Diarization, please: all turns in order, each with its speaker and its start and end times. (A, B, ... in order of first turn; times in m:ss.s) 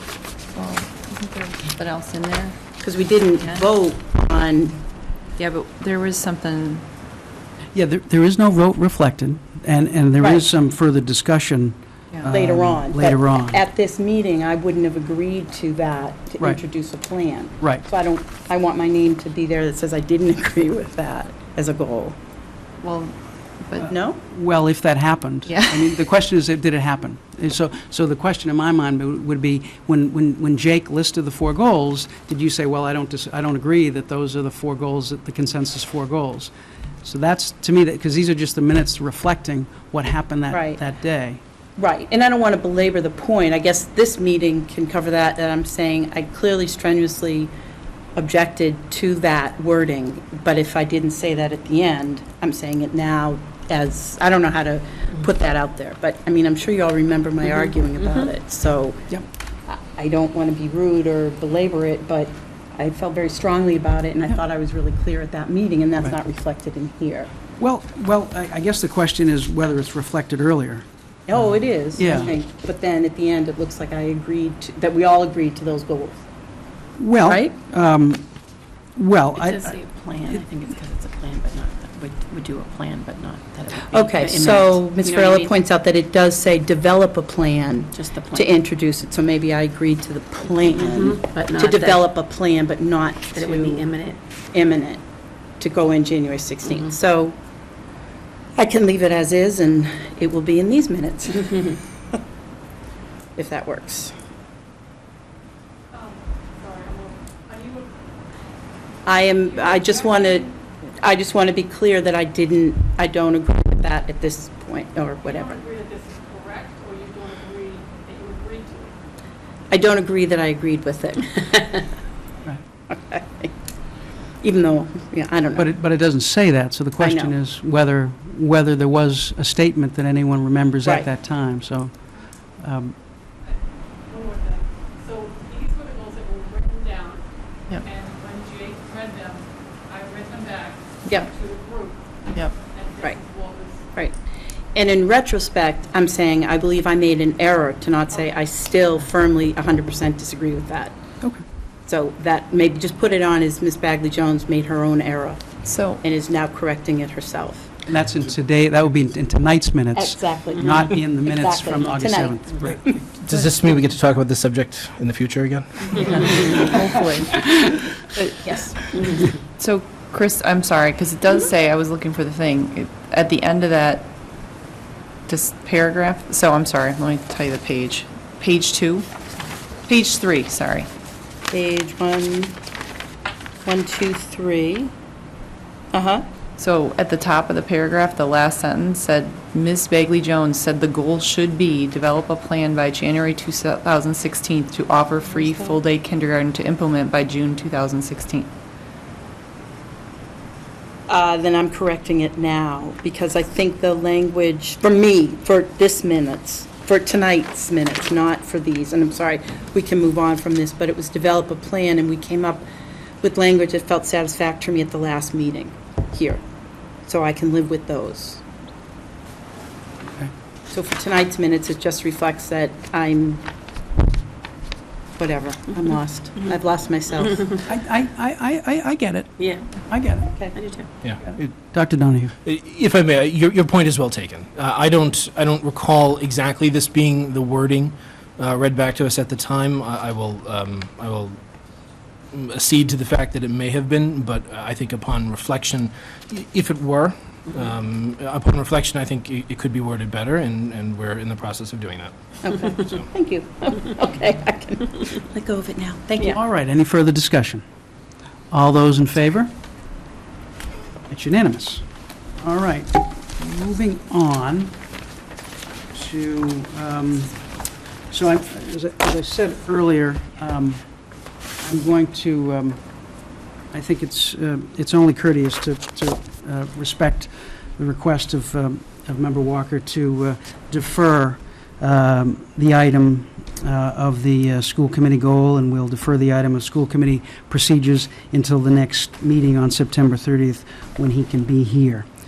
0:00.5-0:02.6 A
0:02.8-0:04.8 B
0:03.4-0:03.7 A
0:05.4-0:06.8 A
0:07.7-0:13.6 C
0:10.2-0:10.4 B
0:12.2-0:22.2 B
0:22.8-0:23.9 A
0:23.8-0:24.2 B
0:24.2-0:36.5 C
0:25.5-0:26.0 A
0:37.0-0:41.4 C
0:40.5-0:40.8 B
0:41.8-0:47.5 B
0:48.2-0:59.1 B
0:59.7-1:07.3 B
1:07.6-1:10.8 C
1:11.3-1:16.2 B
1:11.9-1:12.3 C
1:17.0-1:18.2 C
1:17.2-1:17.5 B
1:19.0-1:19.8 C
1:19.3-1:25.5 D
1:23.9-1:33.9 B
1:27.9-1:28.5 D
1:30.8-1:32.0 D
1:33.3-1:34.2 D
1:34.5-1:35.0 B
1:35.6-1:37.4 B
1:38.6-1:41.8 B
1:43.4-1:44.1 B
1:45.9-1:47.9 E
1:49.0-1:55.6 B
1:49.1-1:50.5 E
1:55.2-1:59.0 E
1:59.7-2:01.9 B
2:02.9-2:03.5 B
2:04.4-2:05.7 B
2:05.5-2:11.9 C
2:07.0-2:07.3 B
2:12.6-2:13.0 C
2:13.5-2:17.2 E
2:17.8-2:22.0 E
2:22.5-2:23.9 E
2:24.7-2:30.9 B
2:31.9-2:35.4 B
2:35.6-2:36.0 A
2:36.0-2:37.7 B
2:37.9-2:42.8 C
2:40.0-2:43.0 B
2:43.1-2:46.7 F
2:46.0-2:48.9 A
2:48.9-2:49.2 D
2:49.6-2:54.1 A
2:55.3-2:59.1 A
2:59.9-3:00.9 A
3:01.5-3:02.6 B
3:03.6-3:04.9 B
3:05.9-3:06.2 B
3:06.6-3:18.5 A
3:15.4-3:15.8 B
3:21.1-3:32.6 B
3:33.2-3:36.4 B
3:37.0-3:38.4 B
3:40.7-3:43.5 B
3:45.2-3:47.6 B
3:47.7-3:50.4 C
3:50.5-3:50.9 D
3:51.2-3:52.3 C
3:52.4-4:01.4 F
4:02.3-4:12.1 F
4:12.4-4:16.4 B
4:16.2-4:17.6 C
4:18.5-4:19.5 C
4:21.1-4:21.8 C
4:22.4-4:24.8 C
4:25.9-4:27.4 C
4:28.1-4:30.8 C
4:31.6-4:32.8 C
4:33.7-4:52.1 C